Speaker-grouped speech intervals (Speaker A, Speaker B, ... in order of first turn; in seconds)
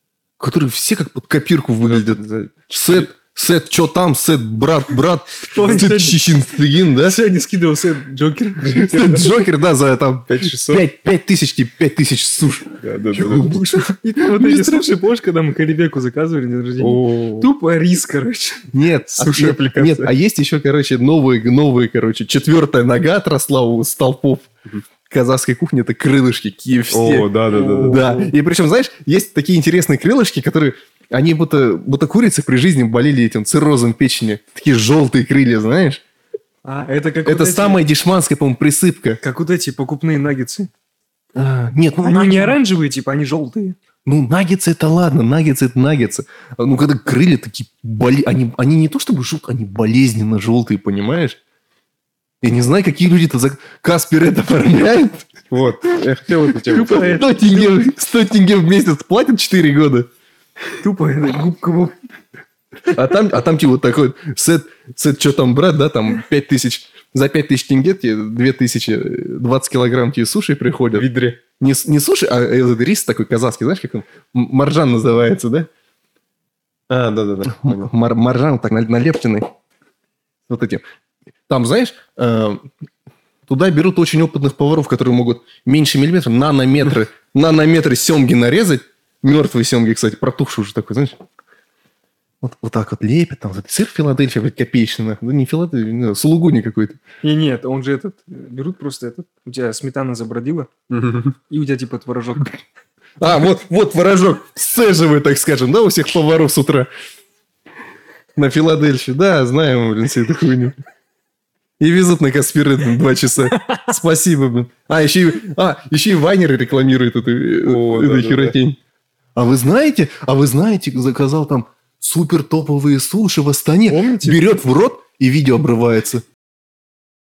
Speaker A: 0.4-7.2, 8.7-15.0, 18.7-24.5, 25.1-27.3, 27.8-36.0, 37.2-39.2, 41.3-42.6, 44.1-51.4, 52.4-55.3, 56.7-60.1, 62.9-71.1, 71.6-75.7, 77.5-79.5, 80.5-80.8, 81.5-82.7, 83.5-91.2, 92.4-97.0, 103.2-106.9, 108.4-110.8, 111.8-118.8, 119.3-126.2
Speaker B: 1.8-3.1, 10.3-10.8, 12.8-13.6, 16.8-17.5, 19.1-20.1, 26.9-28.2, 55.5-57.2, 70.9-71.4, 76.9-77.9, 100.9-101.4, 117.6-118.6
Speaker C: 5.5-6.2, 7.0-9.3, 13.3-18.7, 27.5-28.3, 36.6-37.8, 39.2-40.7, 42.0-43.8, 56.8-57.8, 60.8-62.0, 97.2-100.7, 101.5-102.5, 123.9-124.5